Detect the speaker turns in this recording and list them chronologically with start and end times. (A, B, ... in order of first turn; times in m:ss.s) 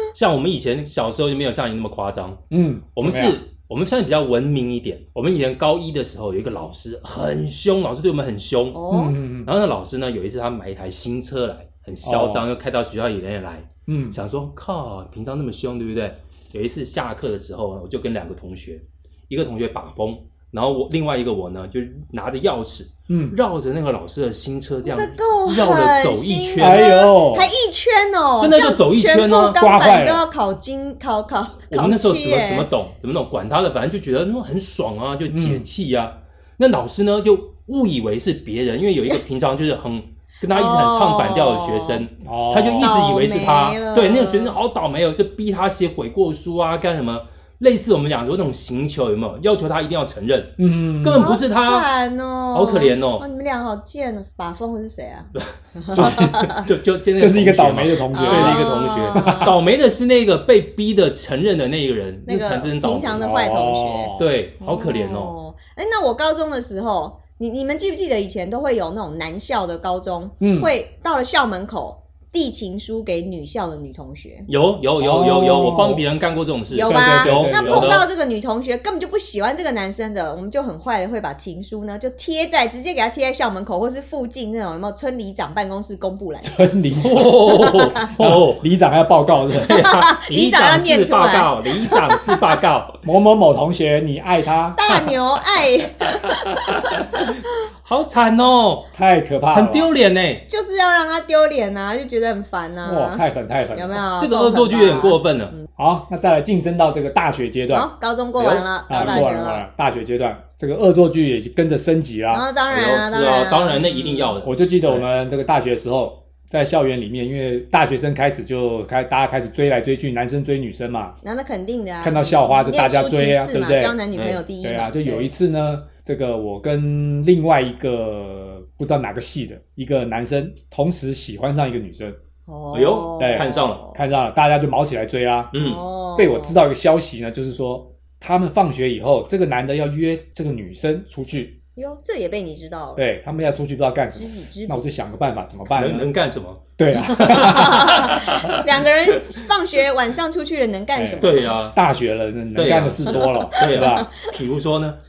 0:00.1-0:02.4 A
0:02.5-0:03.4 B
0:03.0-0:08.8 A
0:08.7-0:09.2 C
0:08.9-0:09.5 B
0:09.4-0:26.9 A
0:12.0-0:12.4 B
0:13.9-0:14.2 B
0:23.1-0:23.4 B
0:24.8-0:32.7 C
0:26.6-0:27.5 B
0:28.4-0:29.6 A
0:29.6-0:30.2 B
0:31.7-0:51.9 A
0:35.3-0:35.7 B
0:40.5-0:42.0 C
0:42.2-0:42.9 B
0:42.8-0:44.6 C
0:50.6-0:51.3 B
0:51.2-0:56.7 C
0:52.5-0:53.2 A
0:55.4-1:03.3 A
0:55.9-0:56.5 B
0:57.2-0:59.5 B
0:58.1-0:59.6 C
1:02.3-1:14.5 C
1:03.2-1:04.3 B
1:04.2-1:05.3 A
1:10.4-1:10.7 B
1:14.5-1:18.1 A
1:15.0-1:16.0 B
1:16.7-1:26.7 C
1:16.9-1:18.0 B
1:26.4-1:29.8 B
1:27.0-1:28.6 A
1:27.6-1:28.1 C
1:29.6-1:33.0 A
1:29.7-1:32.5 C
1:33.0-1:34.8 B
1:34.8-1:37.3 C
1:36.0-1:38.9 A
1:38.9-1:39.9 B
1:39.5-1:40.4 A
1:40.5-1:43.2 C
1:42.8-1:44.0 B
1:43.8-1:45.6 C
1:44.2-1:45.5 A
1:45.8-1:47.9 B
1:47.7-1:49.6 C
1:48.4-1:49.3 A
1:48.4-1:52.4 B
1:52.3-1:54.4 C
1:52.7-1:55.0 A
1:54.4-2:01.2 B
2:01.2-2:05.3 C
2:02.0-2:04.0 B
2:04.1-2:04.4 A
2:04.6-2:12.2 B
2:12.5-2:14.0 C
2:12.7-2:13.8 A
2:13.2-2:15.5 B
2:15.5-2:15.8 A
2:15.5-2:16.6 C
2:16.2-2:21.6 B
2:21.8-2:23.0 C
2:23.0-2:26.1 B
2:24.1-2:24.9 C
2:25.7-2:29.4 A
2:26.8-2:28.2 B
2:27.2-2:31.6 C
2:30.9-2:34.1 B
2:31.2-2:31.8 A
2:32.6-2:35.0 A
2:33.2-2:34.3 C